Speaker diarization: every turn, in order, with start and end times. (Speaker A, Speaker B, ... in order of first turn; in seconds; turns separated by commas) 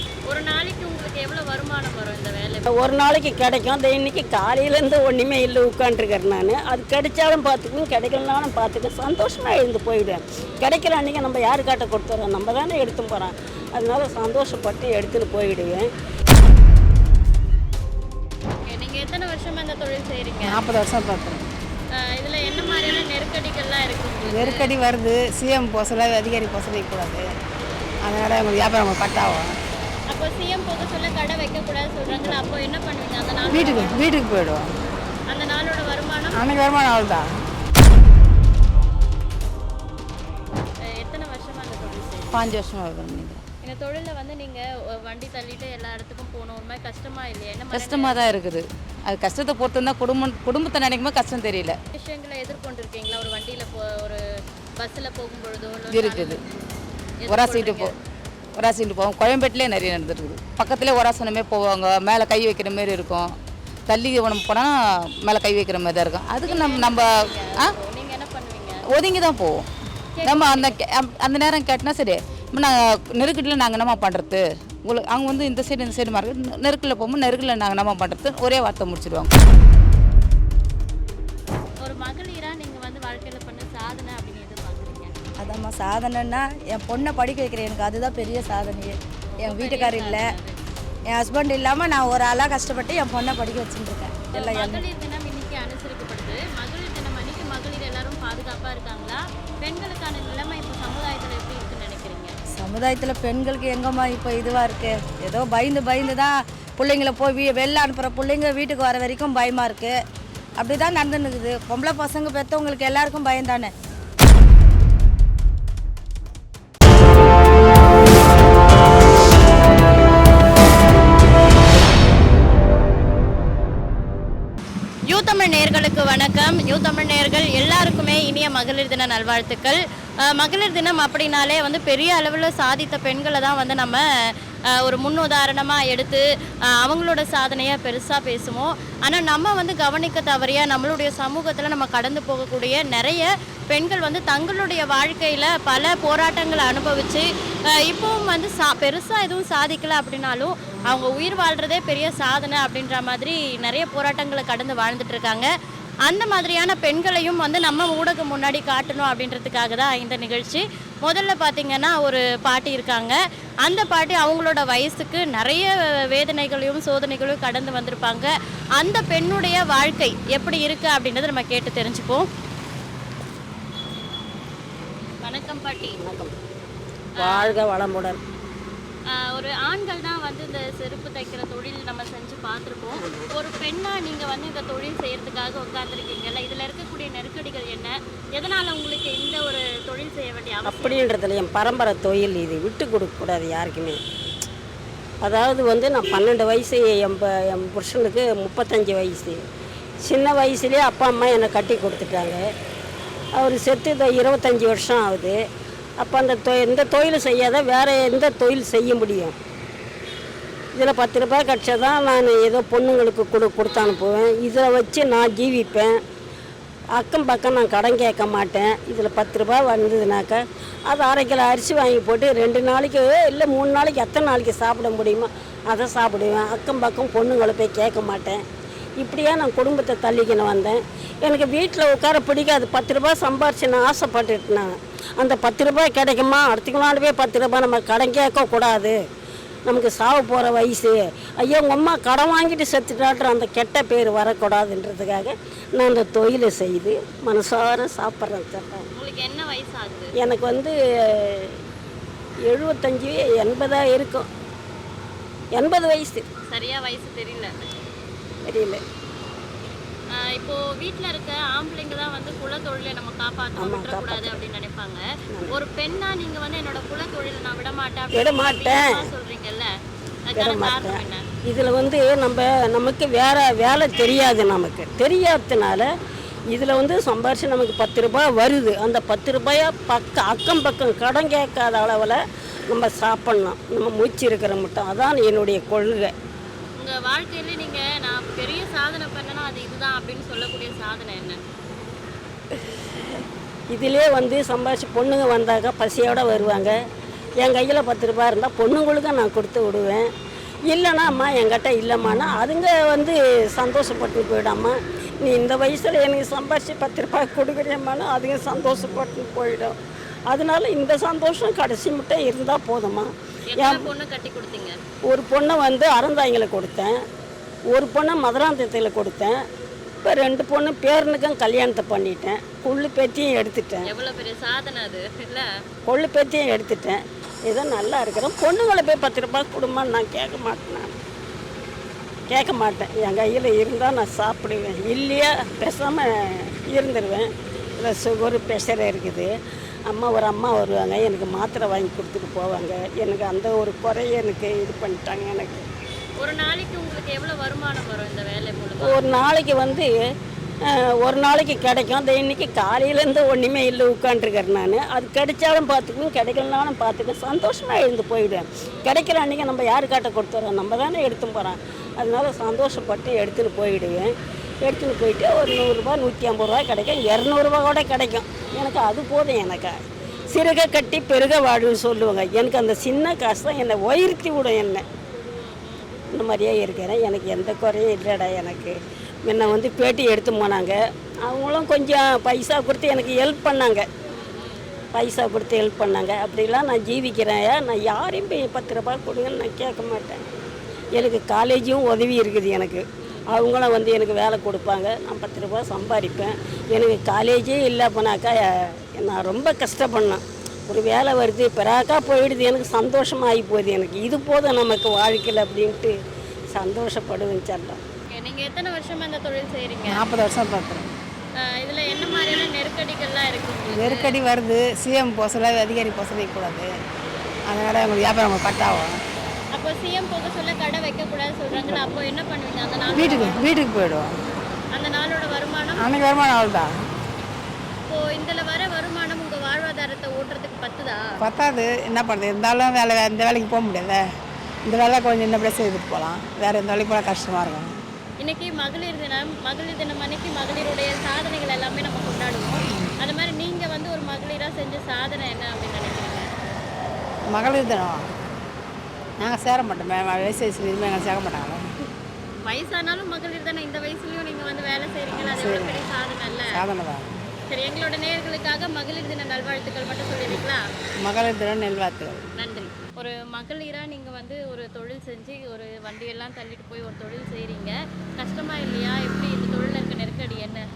Speaker A: 0.3-2.7, Speaker B: 2.7-15.9, Speaker A: 18.6-20.6, Speaker C: 20.5-21.4, Speaker A: 22.0-24.7, Speaker C: 24.3-27.3, Speaker C: 28.1-29.5, Speaker A: 30.1-34.0, Speaker C: 33.5-34.7, Speaker A: 35.3-36.4, Speaker C: 36.4-37.3, Speaker A: 40.9-42.4, Speaker D: 42.3-43.4, Speaker A: 43.6-48.4, Speaker D: 47.7-51.8, Speaker A: 51.9-54.2, Speaker A: 54.8-56.4, Speaker D: 55.9-56.4, Speaker A: 57.2-57.9, Speaker D: 57.3-57.9, Speaker D: 58.6-63.3, Speaker D: 63.9-64.7, Speaker D: 65.2-67.7, Speaker A: 66.5-68.8, Speaker D: 68.9-69.7, Speaker A: 70.2-70.8, Speaker D: 70.2-79.3, Speaker A: 81.8-85.1, Speaker E: 85.4-90.3, Speaker A: 89.3-90.6, Speaker E: 91.1-94.8, Speaker A: 94.4-102.3, Speaker E: 102.6-110.0, Speaker E: 110.6-113.7, Speaker A: 125.1-134.0, Speaker A: 134.8-136.2, Speaker A: 136.8-155.5, Speaker A: 156.1-172.3, Speaker A: 175.2-176.0, Speaker B: 176.0-176.3, Speaker A: 177.2-177.6, Speaker B: 177.2-178.2, Speaker A: 179.1-191.1, Speaker B: 183.0-183.3, Speaker B: 190.7-194.0, Speaker B: 195.2-199.4, Speaker B: 200.1-202.4, Speaker B: 203.4-205.4, Speaker B: 206.0-209.3, Speaker B: 210.8-215.9, Speaker B: 216.9-228.4, Speaker B: 229.0-239.0, Speaker B: 239.7-248.8, Speaker A: 248.9-250.2, Speaker B: 250.2-251.6, Speaker B: 252.5-254.3, Speaker B: 255.6-256.3, Speaker A: 256.5-257.6, Speaker B: 258.5-258.8, Speaker A: 260.1-269.7, Speaker B: 263.6-264.4, Speaker B: 268.1-269.1, Speaker A: 270.3-271.2, Speaker B: 270.4-275.9, Speaker B: 276.5-282.2, Speaker B: 282.7-286.1, Speaker A: 286.8-291.4, Speaker B: 293.7-296.8, Speaker B: 297.4-300.1, Speaker B: 300.7-309.8, Speaker B: 310.3-313.8, Speaker A: 313.5-314.8, Speaker B: 315.1-316.9, Speaker B: 317.7-319.4, Speaker B: 320.0-323.9, Speaker A: 323.9-325.5, Speaker B: 325.9-330.9, Speaker B: 332.3-337.3, Speaker B: 337.8-339.3, Speaker B: 339.9-345.7, Speaker A: 346.2-349.0, Speaker B: 348.8-350.0, Speaker B: 350.7-364.1, Speaker A: 358.7-358.9, Speaker B: 364.6-374.9, Speaker A: 368.4-368.8, Speaker A: 370.1-370.4, Speaker A: 375.3-376.0, Speaker B: 376.1-383.9, Speaker A: 384.1-384.6, Speaker B: 384.9-390.2, Speaker B: 390.9-405.9, Speaker A: 393.0-393.3, Speaker B: 406.5-407.8, Speaker A: 408.1-410.0, Speaker C: 409.9-410.9, Speaker A: 411.4-414.2, Speaker C: 413.7-416.7, Speaker C: 417.5-418.9, Speaker A: 419.5-423.4, Speaker C: 422.9-424.1, Speaker A: 424.7-425.9, Speaker C: 425.8-426.7, Speaker A: 427.9-431.1, Speaker C: 431.2-434.0, Speaker C: 434.7-437.7, Speaker A: 438.2-446.3, Speaker C: 447.3-448.0, Speaker C: 449.2-451.6, Speaker A: 452.5-456.5, Speaker C: 455.2-455.9, Speaker C: 456.5-457.1, Speaker A: 457.5-460.6, Speaker C: 461.0-462.3, Speaker A: 462.4-470.6